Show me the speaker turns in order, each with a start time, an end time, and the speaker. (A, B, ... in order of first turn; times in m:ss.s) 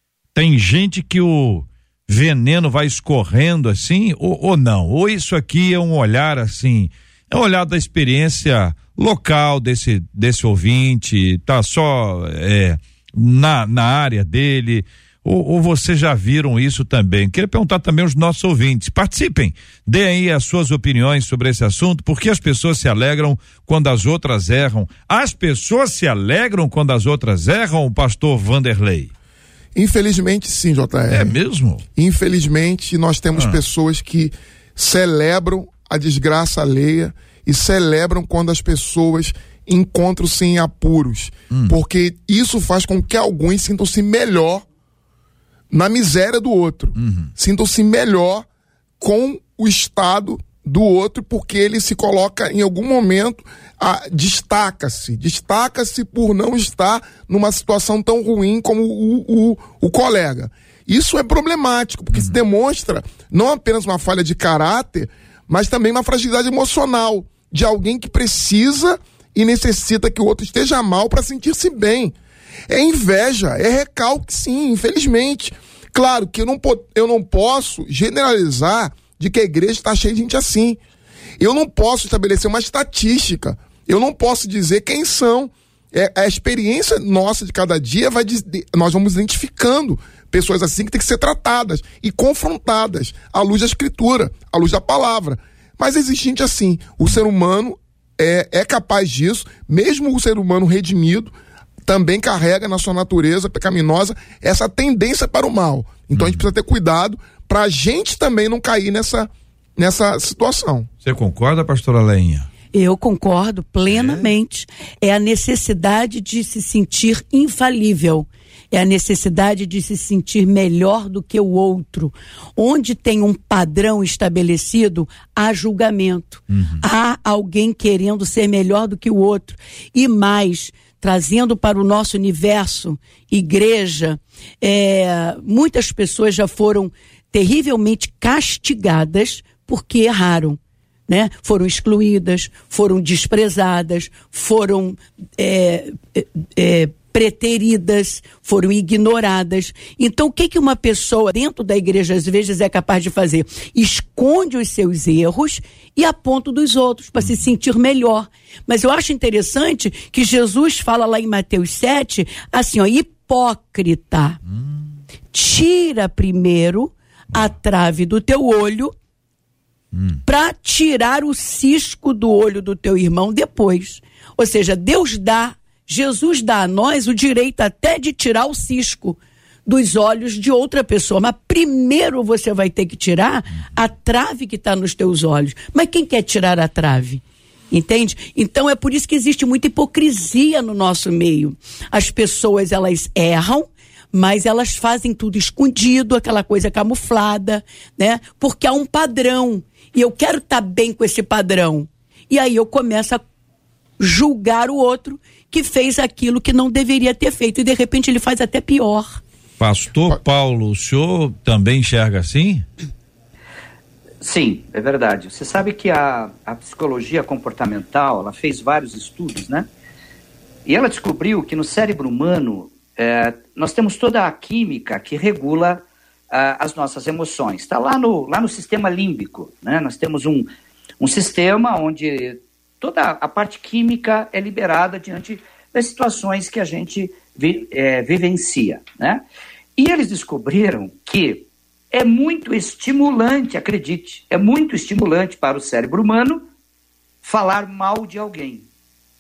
0:00.4-0:29.1 A
0:29.8-0:31.4 B
0:31.1-0:31.8 A
0:32.0-0:44.7 B
0:41.5-0:41.8 A
0:45.7-0:48.5 B
0:47.0-0:47.3 A
0:49.0-1:12.2 B
1:12.7-1:20.8 B
1:21.4-1:41.3 B
1:41.8-1:50.9 B
1:46.2-1:46.4 A
1:51.0-1:52.5 A
1:52.7-2:44.4 C
1:53.9-1:54.2 A
2:06.5-2:06.8 A
2:45.3-2:48.9 C
2:49.9-2:50.2 A
2:50.3-3:23.2 C
3:24.0-3:29.2 C
3:29.6-3:32.7 A
3:34.2-3:39.7 D
3:40.6-3:59.2 D
3:59.8-4:06.5 D
4:07.2-4:08.7 D